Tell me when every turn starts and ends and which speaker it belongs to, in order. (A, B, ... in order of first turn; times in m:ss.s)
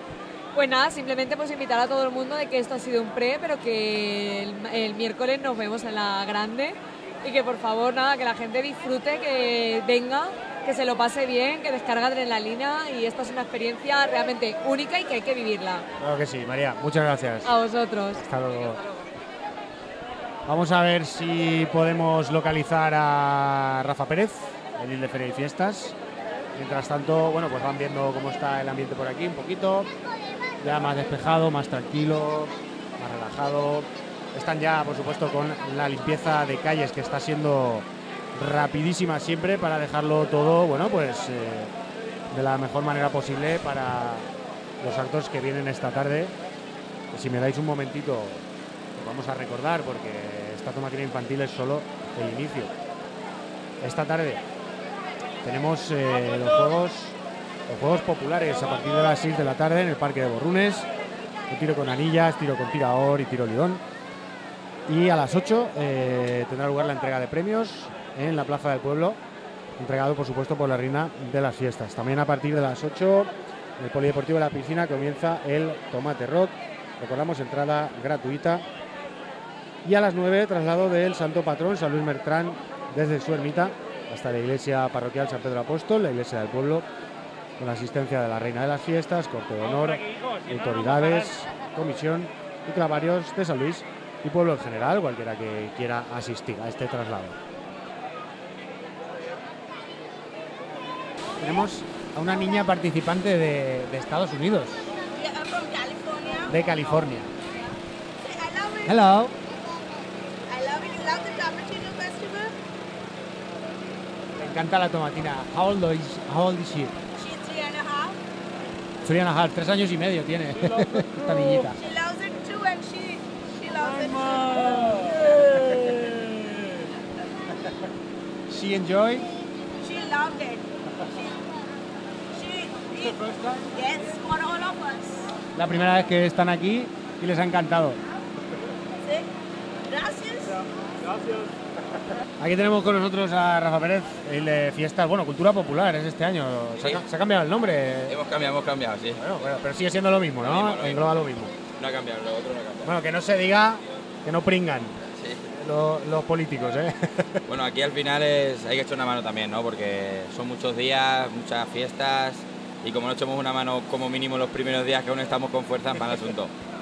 0:00.5-0:15.9 A
0:16.0-0:17.5 B
0:17.4-0:18.2 A
0:18.1-0:18.8 B
0:20.4-0:26.0 B
0:26.5-0:29.9 B
0:30.6-0:41.7 B
0:42.3-0:44.3 B
0:44.8-0:46.4 B
0:47.1-0:48.4 B
0:48.9-0:52.7 B
0:53.8-0:54.4 B
0:55.4-0:57.2 B
0:57.7-1:00.9 B
1:01.5-1:03.8 B
1:04.9-1:09.2 B
1:09.8-1:18.6 B
1:19.8-1:26.9 B
1:27.6-1:37.4 B
1:41.4-1:44.9 B
1:45.1-1:46.5 C
1:46.5-1:47.3 B
1:48.2-1:49.0 C
1:48.9-1:49.3 B
1:50.5-1:52.6 C
1:54.4-1:57.0 B
1:57.2-1:58.2 C
1:59.0-2:01.8 B
2:01.8-2:05.4 C
2:03.8-2:06.3 B
2:08.5-2:09.3 B
2:09.8-2:11.4 C
2:12.3-2:13.1 C
2:13.1-2:13.6 B
2:13.6-2:15.3 C
2:15.6-2:18.0 B
2:19.0-2:19.3 C
2:19.9-2:20.5 C
2:22.4-2:28.2 B
2:26.8-2:27.0 D
2:28.1-2:29.2 D
2:29.2-2:31.5 B
2:30.4-2:31.1 D
2:31.8-2:32.9 D
2:32.8-2:35.0 B
2:35.2-2:35.5 D
2:35.5-2:37.4 B
2:37.5-2:46.5 D